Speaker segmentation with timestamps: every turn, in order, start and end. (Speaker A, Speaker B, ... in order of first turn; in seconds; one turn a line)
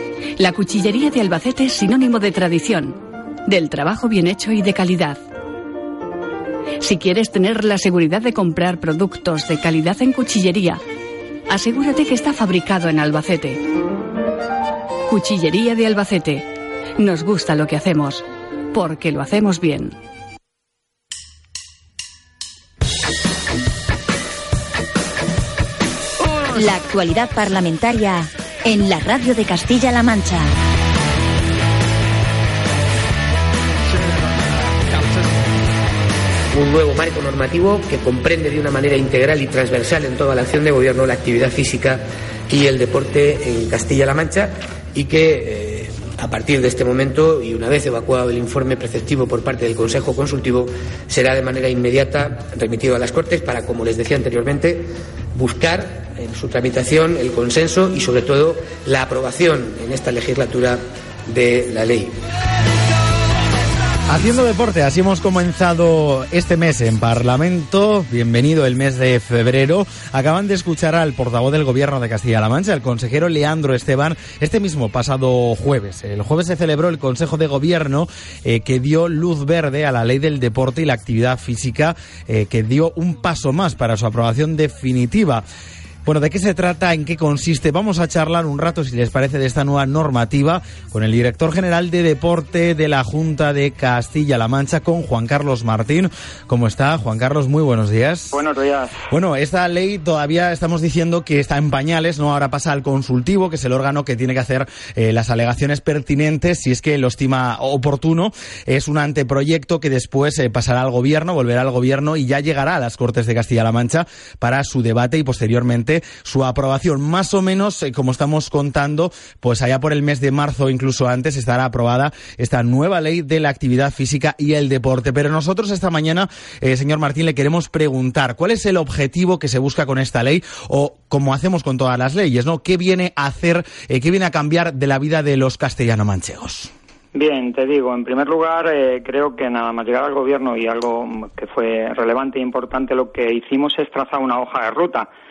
Speaker A: 0.4-5.2
Speaker A: 6.8-10.8
Speaker A: 11.5-13.6
Speaker A: 15.1-16.5
Speaker A: 17.0-19.9
Speaker B: 26.5-30.5
Speaker C: 36.5-62.2
Speaker D: 64.1-85.4
Speaker D: 86.0-98.4
Speaker E: 98.3-99.0
Speaker D: 99.1-136.7
Speaker E: 137.1-145.1